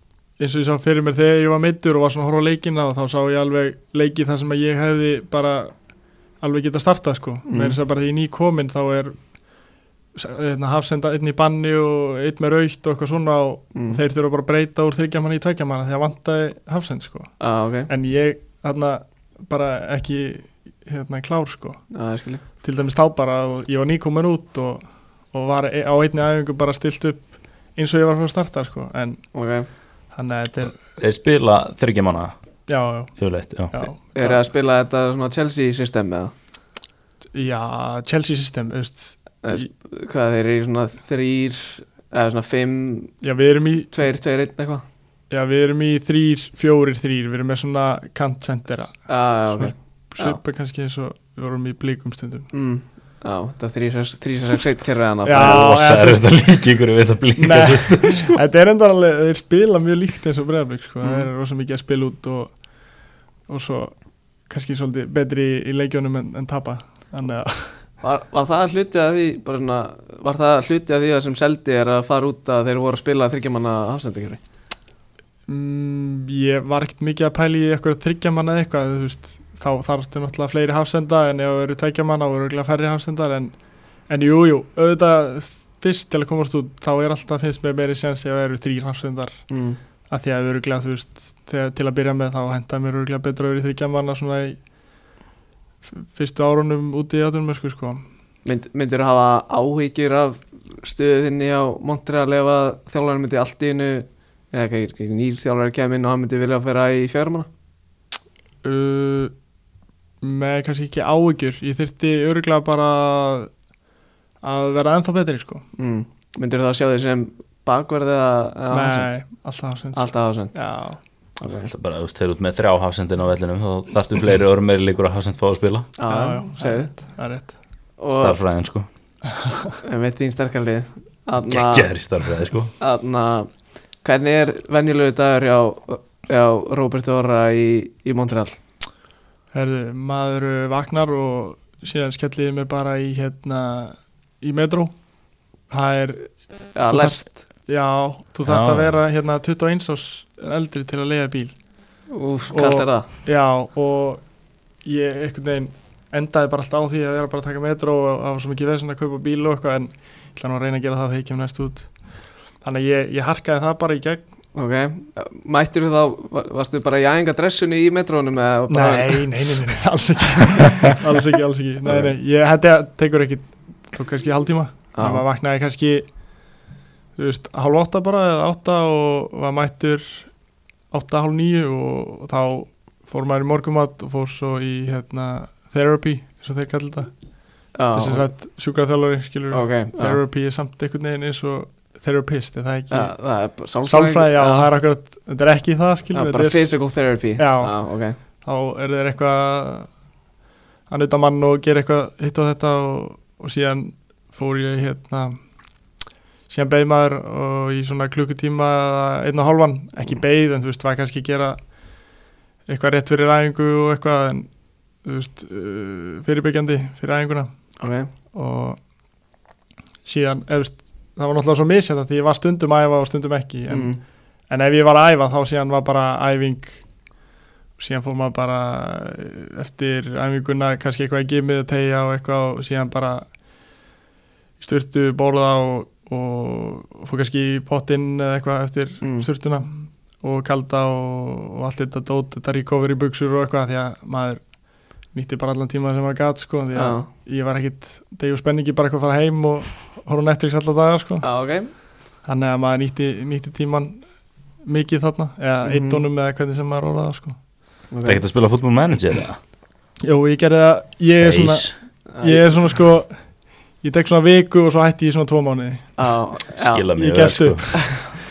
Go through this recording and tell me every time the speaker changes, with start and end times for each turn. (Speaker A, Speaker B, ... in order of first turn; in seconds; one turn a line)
Speaker A: 0.4-5.7
Speaker A: 6.4-9.2
Speaker B: 7.5-7.8
Speaker A: 10.2-17.3
Speaker B: 13.8-14.0
Speaker B: 17.4-17.9
Speaker A: 17.9-21.8
Speaker B: 21.9-22.4
Speaker A: 22.6-29.2
Speaker B: 29.3-29.7
Speaker A: 30.1-30.7
Speaker C: 31.0-32.3
Speaker A: 32.7-33.1
Speaker C: 33.2-33.9
Speaker A: 33.7-34.4
Speaker B: 34.1-36.3
Speaker A: 37.3-39.7
Speaker B: 39.4-43.1
Speaker A: 43.2-43.9
Speaker B: 43.9-44.8
Speaker A: 45.3-52.5
Speaker B: 49.1-50.4
Speaker B: 52.5-55.7
Speaker A: 55.2-56.2
Speaker C: 55.4-58.4
Speaker A: 57.4-62.6
Speaker B: 61.0-61.3
Speaker A: 63.5-64.0
Speaker A: 64.5-67.8
Speaker B: 68.0-74.4
Speaker A: 75.5-83.5
Speaker A: 84.1-89.4
Speaker B: 89.5-89.8
Speaker A: 90.1-94.6
Speaker A: 96.0-98.0
Speaker B: 98.5-107.5
Speaker A: 108.6-109.3
Speaker A: 110.2-113.5
Speaker A: 114.4-115.7
Speaker B: 115.8-119.1
Speaker A: 118.7-121.0
Speaker B: 120.0-120.5
Speaker B: 121.4-121.7
Speaker C: 121.7-125.9
Speaker B: 126.0-126.9
Speaker A: 126.1-127.5
Speaker B: 128.0-128.4
Speaker C: 128.1-128.9
Speaker A: 129.4-129.7
Speaker B: 129.8-131.9
Speaker C: 131.5-132.7
Speaker B: 132.8-133.5
Speaker B: 134.0-138.6
Speaker A: 139.5-144.9
Speaker A: 145.7-151.6
Speaker B: 146.8-147.4
Speaker C: 148.4-149.0
Speaker B: 152.1-153.1
Speaker A: 152.5-154.2
Speaker A: 154.8-161.9
Speaker A: 162.6-164.2
Speaker B: 164.6-169.3
Speaker A: 168.7-176.1
Speaker B: 171.8-172.1
Speaker B: 174.9-175.2
Speaker A: 177.2-180.3
Speaker A: 180.9-187.1
Speaker B: 187.8-188.3
Speaker A: 187.9-193.1
Speaker B: 189.5-190.2
Speaker B: 192.9-194.7
Speaker A: 193.9-196.7
Speaker B: 196.1-198.2
Speaker A: 197.4-197.8
Speaker A: 198.4-199.9
Speaker A: 200.9-205.4
Speaker A: 206.5-211.6
Speaker A: 212.7-214.5
Speaker A: 215.0-217.5
Speaker B: 217.8-218.1
Speaker A: 218.3-218.8
Speaker A: 220.1-223.9
Speaker B: 223.7-224.0
Speaker A: 224.5-226.8
Speaker A: 227.8-233.3
Speaker A: 234.6-244.4
Speaker B: 239.0-239.3
Speaker A: 245.1-251.3
Speaker B: 246.8-247.1
Speaker B: 251.2-251.7
Speaker A: 252.2-254.0
Speaker A: 254.6-257.4
Speaker B: 255.6-256.0
Speaker B: 257.9-258.2
Speaker C: 258.1-259.4
Speaker A: 260.0-261.7
Speaker C: 261.1-261.8
Speaker B: 262.1-262.6
Speaker A: 262.2-263.2
Speaker A: 263.8-265.9
Speaker B: 266.0-266.9
Speaker C: 266.6-267.8
Speaker A: 267.0-268.2